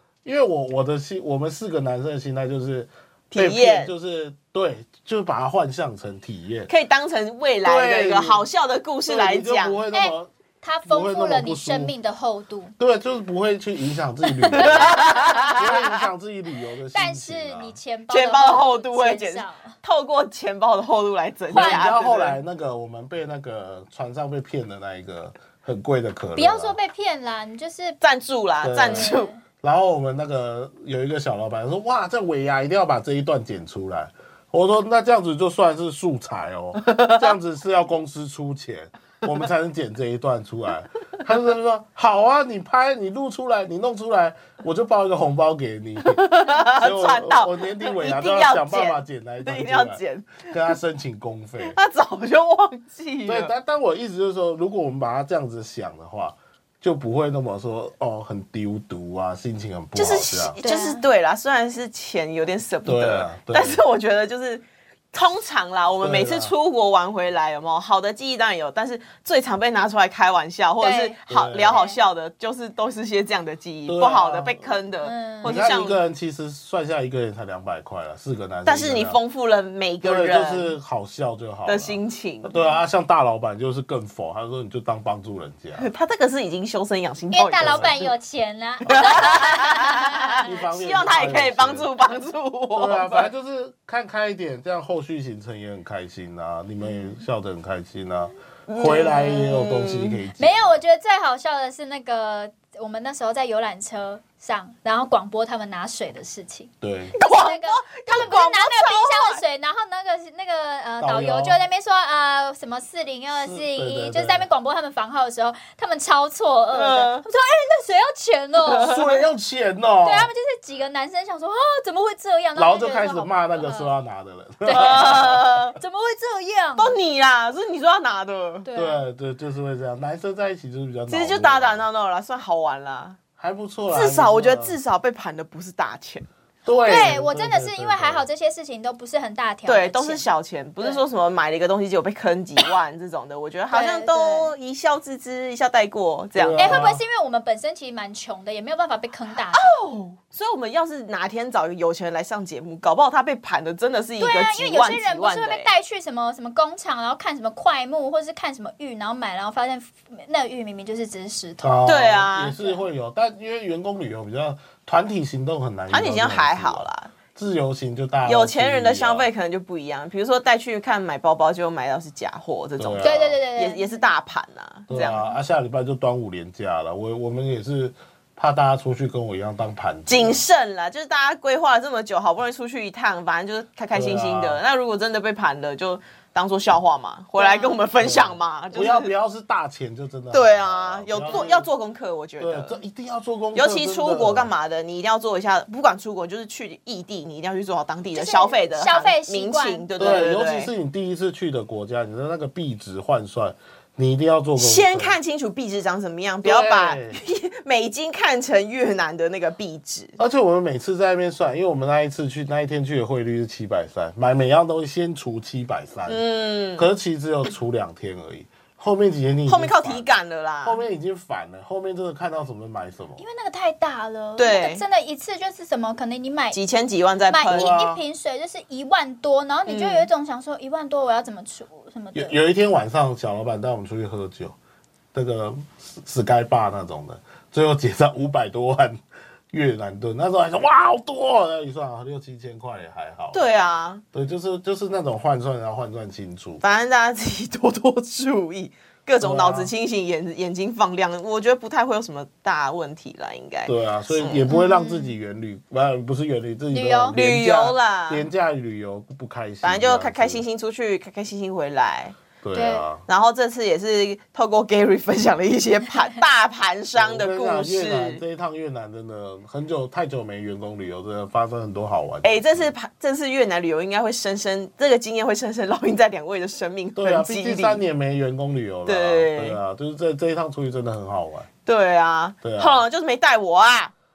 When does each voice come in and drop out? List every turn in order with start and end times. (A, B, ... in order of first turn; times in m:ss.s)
0:00.2-0:06.7 A
0:03.3-0:03.9 B
0:06.7-0:09.8 B
0:07.6-0:08.4 A
0:09.1-0:10.3 A
0:09.9-0:12.7 C
0:10.9-0:11.9 A
0:12.8-0:17.8 A
0:14.5-0:16.1 B
0:14.6-0:15.2 C
0:16.9-0:19.8 C
0:18.1-0:22.4 B
0:21.5-0:26.8 A
0:21.6-0:21.8 C
0:26.4-0:28.0 C
0:28.0-0:29.3 B
0:28.6-0:51.8 A
0:28.8-0:29.4 C
0:36.8-0:37.3 B
0:46.0-0:50.8 B
0:51.6-0:53.5 B
0:53.3-1:00.6 A
1:00.0-1:16.0 B
1:00.6-1:01.0 C
1:02.8-1:03.8 A
1:06.0-1:06.5 A
1:10.8-1:12.0 C
1:11.3-1:11.8 A
1:13.9-1:14.7 A
1:15.0-1:15.6 C
1:15.4-1:19.2 A
1:18.6-1:20.7 B
1:20.0-1:25.9 A
1:21.6-1:22.5 B
1:25.8-1:28.0 B
1:27.3-1:30.5 C
1:27.6-1:28.1 A
1:28.9-1:33.3 B
1:30.4-1:31.9 A
1:32.8-1:40.8 A
1:38.7-1:40.2 B
1:40.4-1:59.0 C
1:46.8-1:47.2 A
1:47.2-1:49.4 B
1:51.0-1:51.6 A
1:53.4-1:54.5 A
1:56.7-1:57.2 B
1:58.7-1:59.0 B
1:58.8-2:00.3 A
2:00.0-2:03.9 C
2:02.6-2:05.6 A
2:04.6-2:07.0 C
2:04.7-2:05.8 B
2:06.8-2:08.6 B
2:08.6-2:09.0 C
2:08.7-2:11.8 A
2:11.1-2:13.2 B
2:13.4-2:14.8 A
2:13.9-2:16.3 B
2:16.6-2:18.3 A
2:16.8-2:20.2 C
2:19.7-2:26.9 B
2:23.7-2:24.5 C
2:26.4-2:27.0 A
2:26.6-2:29.7 C
2:29.3-2:35.7 B
2:34.2-2:41.9 C
2:41.6-2:49.3 A
2:41.8-2:42.6 B
2:45.9-2:47.1 B
2:48.2-2:55.4 B
2:52.8-2:53.3 A
2:53.0-2:54.0 C
2:54.9-3:00.4 A
2:55.0-2:55.3 C
3:00.1-3:09.1 B
3:03.9-3:04.6 A
3:07.4-3:07.8 C
3:08.0-3:11.7 A
3:10.3-3:12.8 B
3:12.4-3:14.5 A
3:13.6-3:20.7 B
3:18.1-3:20.2 C
3:20.0-3:25.2 A
3:24.6-3:30.2 B
3:26.4-3:27.2 A
3:30.2-3:36.2 A
3:36.1-3:36.9 B
3:36.8-3:40.1 A
3:39.5-3:40.8 B
3:40.6-3:43.2 A
3:43.2-3:46.6 C
3:44.4-3:44.8 B
3:46.5-3:47.8 B
3:47.3-3:52.4 C
3:47.5-3:48.0 A
3:49.7-3:50.1 B
3:52.2-3:54.6 A
3:55.1-3:59.0 A
3:59.5-4:03.4 A
4:03.3-4:04.0 B
4:04.1-4:06.6 A
4:06.6-4:14.5 B
4:09.2-4:09.7 A
4:13.7-4:20.4 A
4:14.5-4:15.1 C
4:16.7-4:17.2 C
4:17.2-4:18.3 B
4:19.6-4:22.2 B
4:22.4-4:23.0 A
4:22.5-4:22.9 C
4:23.1-4:28.2 B
4:27.0-4:32.7 A
4:32.2-4:37.8 B
4:37.0-4:41.5 A
4:38.9-4:39.6 B
4:41.7-4:43.9 B
4:42.4-4:42.8 A